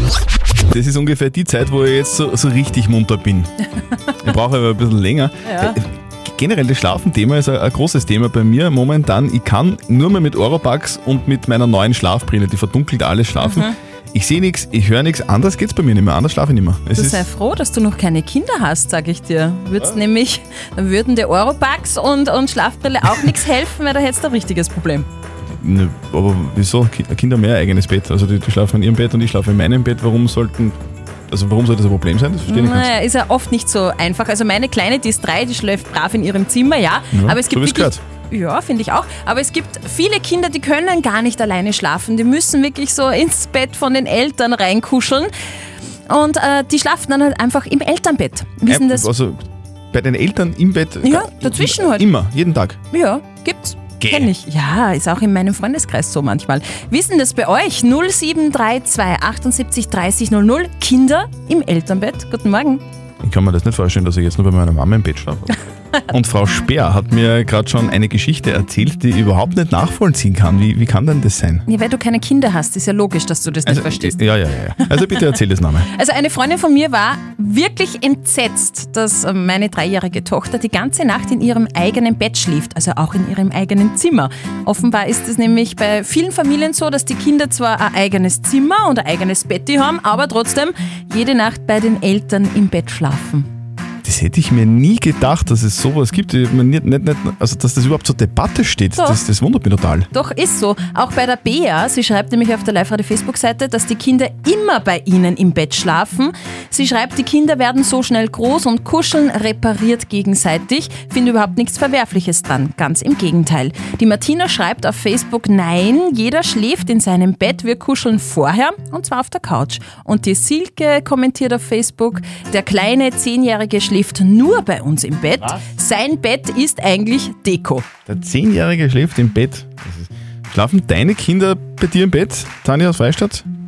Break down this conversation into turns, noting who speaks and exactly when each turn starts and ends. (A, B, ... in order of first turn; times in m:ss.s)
0:00.7-0:03.5 A
0:04.2-0:17.2 A
0:05.4-0:05.8 B
0:13.4-0:13.7 B
0:16.9-0:25.1 B
0:25.5-0:30.8 A
0:31.3-0:32.9 A
0:32.5-0:45.3 B
0:37.1-0:38.0 A
0:46.1-0:49.1 B
0:48.7-0:49.4 A
0:49.9-0:52.8 A
0:51.0-0:52.1 B
0:52.9-1:02.8 B
0:54.0-0:54.3 A
1:03.2-1:11.6 A
1:11.7-1:14.3 B
1:13.6-1:15.9 A
1:15.9-1:33.5 B
1:34.0-1:40.1 A
1:40.1-2:07.8 B
2:08.1-2:13.4 A